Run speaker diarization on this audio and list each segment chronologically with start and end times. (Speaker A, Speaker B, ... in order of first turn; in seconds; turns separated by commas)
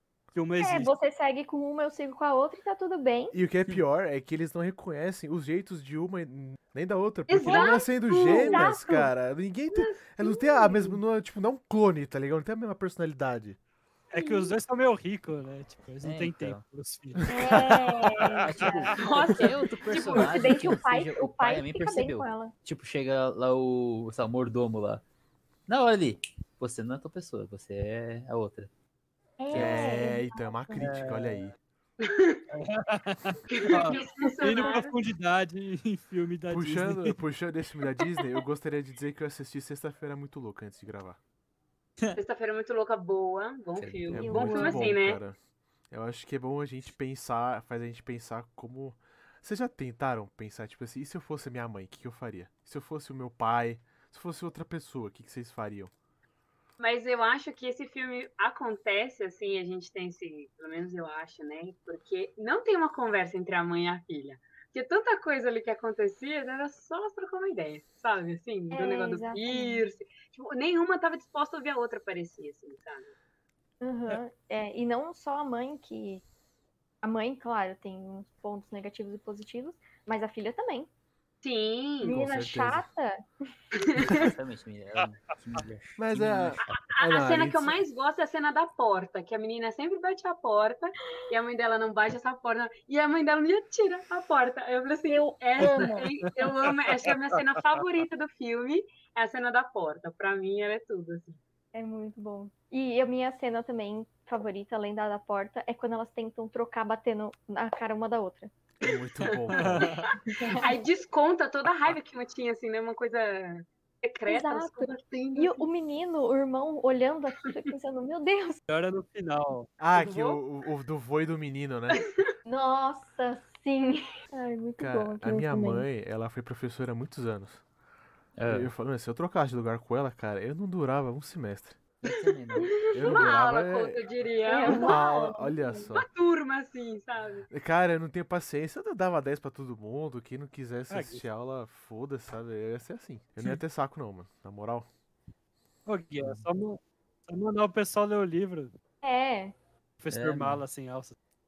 Speaker A: 0.3-0.9, Speaker B: 0.6-3.4, Speaker C: 3.3-13.6, Speaker D: 7.3-8.8, Speaker B: 8.2-9.1, Speaker D: 9.7-10.8, Speaker A: 14.1-18.9, Speaker B: 14.1-14.5, Speaker E: 16.0-16.6, Speaker B: 17.3-19.5, Speaker E: 18.4-25.0, Speaker D: 19.0-20.4, Speaker B: 20.1-22.5, Speaker E: 25.7-28.7, Speaker B: 29.4-30.8, Speaker E: 29.5-29.9, Speaker C: 29.5-31.5, Speaker A: 30.8-31.4, Speaker D: 32.0-32.4, Speaker A: 32.5-37.1, Speaker D: 33.5-34.9, Speaker B: 33.9-34.7, Speaker C: 36.5-41.2, Speaker D: 42.1-45.2, Speaker E: 43.8-44.3, Speaker C: 44.1-45.4, Speaker B: 44.2-44.9, Speaker C: 45.9-55.9, Speaker D: 56.8-73.1, Speaker B: 68.7-69.8, Speaker B: 73.8-76.2, Speaker B: 77.0-80.9, Speaker D: 81.4-82.2, Speaker B: 82.0-83.2, Speaker C: 82.0-82.8, Speaker D: 83.8-84.3, Speaker E: 84.1-86.8, Speaker C: 86.0-87.8, Speaker D: 86.6-101.4, Speaker B: 95.1-96.1, Speaker A: 95.6-97.1, Speaker B: 101.7-108.5, Speaker C: 108.8-109.9, Speaker D: 108.9-110.0, Speaker B: 110.3-110.7, Speaker D: 110.5-115.7, Speaker B: 114.3-118.6, Speaker A: 118.7-119.7, Speaker C: 119.8-122.0, Speaker D: 119.9-120.4, Speaker B: 122.5-125.9, Speaker C: 124.8-127.6, Speaker E: 128.4-128.7, Speaker C: 128.5-131.8, Speaker E: 132.0-132.8, Speaker D: 132.6-134.9, Speaker C: 132.9-134.1, Speaker B: 134.4-135.9, Speaker C: 134.6-136.1, Speaker D: 135.9-137.5, Speaker C: 137.5-144.9, Speaker A: 140.9-141.2, Speaker A: 145.8-148.7, Speaker E: 146.2-146.4, Speaker B: 149.0-149.5, Speaker A: 150.0-151.1, Speaker E: 150.1-150.6